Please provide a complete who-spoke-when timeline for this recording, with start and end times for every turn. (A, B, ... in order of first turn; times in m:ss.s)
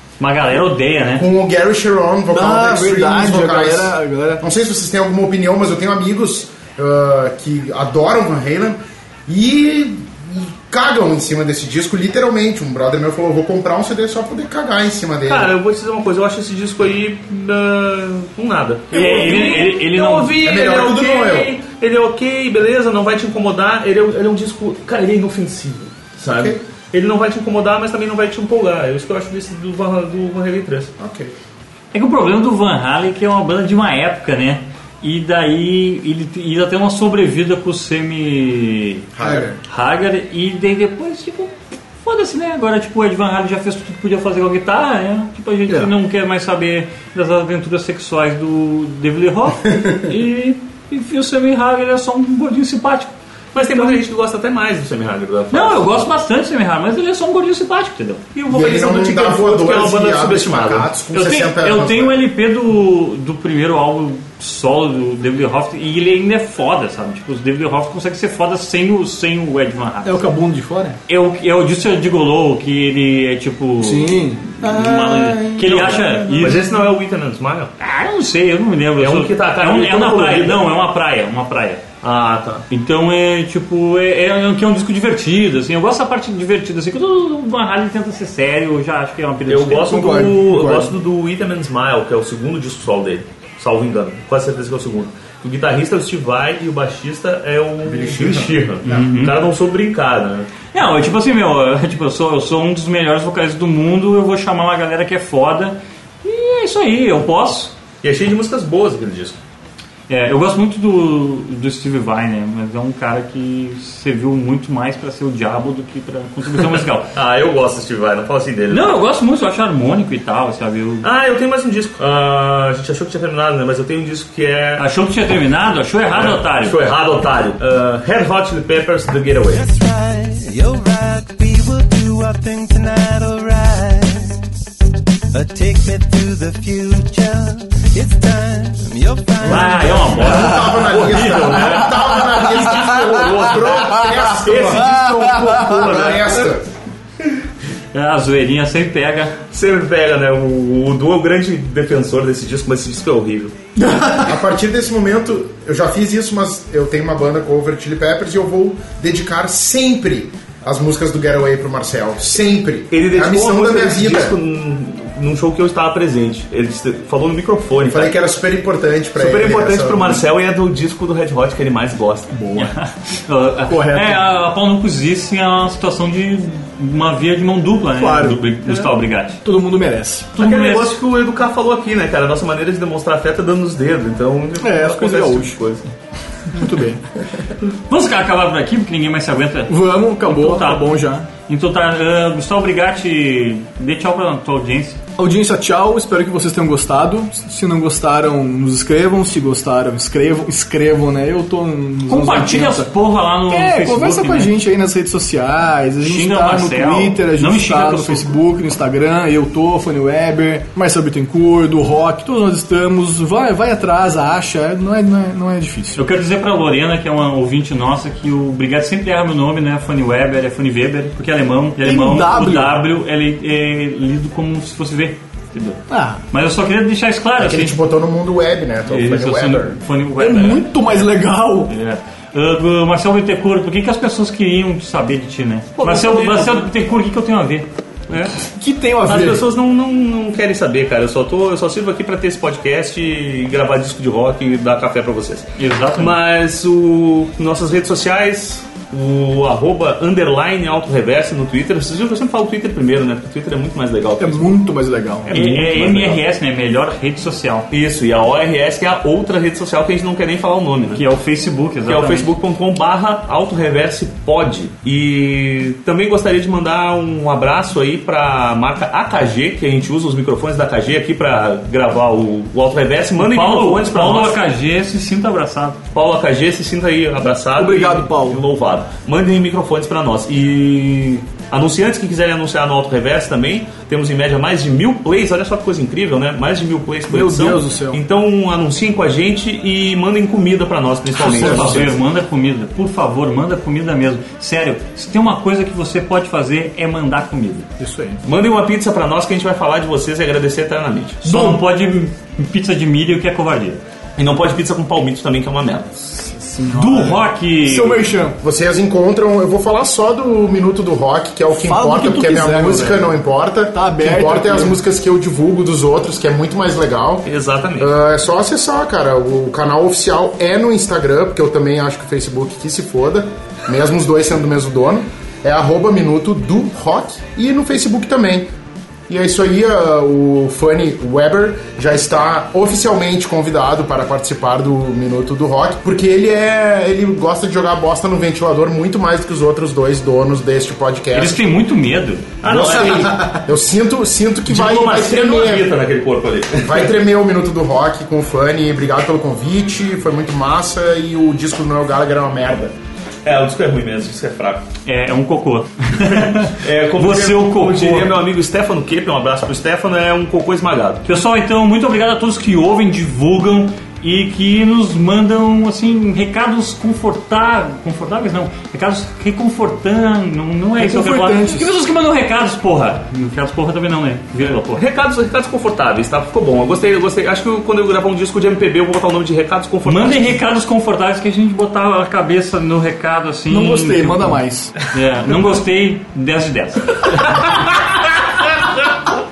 0:00.2-0:01.3 A
0:01.1-0:15.5 B
0:02.3-0:04.4 C
0:15.2-0:30.9 D
0:18.9-0:20.3 A
0:19.0-0:19.7 C
0:20.4-0:21.5 B
0:31.0-0:31.3 B
0:31.9-0:39.1 A
0:39.1-0:39.5 B
0:39.2-0:39.6 C
0:39.6-0:54.0 A
0:45.7-0:45.9 C
0:53.5-0:56.0 D
0:55.5-0:58.3 A
0:58.3-1:00.9 D
0:58.5-1:02.2 B
1:01.1-1:10.2 A
1:10.0-1:11.0 C
1:11.1-1:16.6 A
1:13.8-1:16.7 C
1:15.7-1:17.7 D
1:17.8-1:21.8 A
1:19.0-1:20.6 D
1:22.0-1:22.6 D
1:22.7-1:30.1 A
1:29.5-1:40.5 D
1:29.8-1:30.9 C
1:38.2-1:39.4 A
1:40.7-1:47.7 A
1:48.0-1:49.4 D
1:50.1-1:57.1 A
1:57.1-1:59.0 D
1:58.7-2:01.1 A
2:01.0-2:04.8 D
2:04.8-2:06.8 A
2:06.1-2:09.6 D
2:09.5-2:14.5 E
2:15.3-2:20.2 E
2:19.4-2:21.9 A
2:20.1-2:26.6 B
2:20.1-2:20.9 C
2:20.8-2:26.5 D
2:21.8-2:26.3 C
2:27.9-2:29.4 A
2:29.5-2:33.5 D
2:33.8-2:34.4 C
2:34.2-2:44.3 B
2:42.9-2:48.2 D
2:47.9-2:50.2 B
2:49.1-2:52.3 D
2:52.3-2:52.7 C
2:52.6-2:59.4 A
2:53.6-2:54.2 C
2:57.9-2:58.4 C
2:58.6-2:58.9 D
2:59.4-3:00.3 C
3:00.4-3:00.9 A
3:00.4-3:05.9 D
3:04.6-3:05.6 C
3:06.5-3:07.2 C
3:07.9-3:15.0 A
3:09.7-3:11.3 C
3:15.2-3:22.9 C
3:22.1-3:24.5 A
3:23.5-3:36.0 C
3:26.0-3:28.4 A
3:36.0-3:47.8 A
3:41.8-3:42.8 C
3:45.9-3:46.2 C
3:47.4-3:49.8 B
3:48.9-3:51.0 A
3:50.2-3:51.7 C
3:51.7-3:57.6 A
3:55.8-3:56.5 D
3:56.1-3:56.3 C
3:58.4-3:59.4 C
3:59.0-4:14.6 D
4:05.6-4:06.2 A
4:14.2-4:15.4 C
4:15.3-4:16.2 D
4:15.3-4:17.7 A
4:17.7-4:21.0 D
4:20.9-4:22.3 A
4:21.8-4:34.4 D
4:33.2-4:35.8 A
4:35.9-4:52.0 D
4:37.6-4:38.4 C
4:47.1-4:48.0 C
4:51.2-4:57.7 A
4:51.2-4:51.9 C
4:57.8-4:58.2 C
4:58.2-5:01.5 D
5:01.2-5:03.8 A
5:01.3-5:01.6 C
5:04.2-5:06.2 D
5:06.2-5:08.4 C
5:06.7-5:08.1 A
5:08.4-5:17.3 B
5:11.5-5:13.2 C
5:13.7-5:14.8 C
5:17.2-5:17.9 D
5:17.8-5:28.5 B
5:29.1-5:41.4 B
5:41.1-5:42.4 A
5:42.4-5:43.4 D
5:42.4-5:45.7 B
5:44.5-5:46.9 D
5:46.6-5:52.7 B
5:53.2-5:54.7 D
5:54.8-5:58.1 A
5:56.0-6:01.0 D
6:01.0-6:14.8 A
6:10.8-6:11.7 C
6:14.7-6:20.4 D
6:19.8-6:28.6 A
6:23.5-6:24.7 C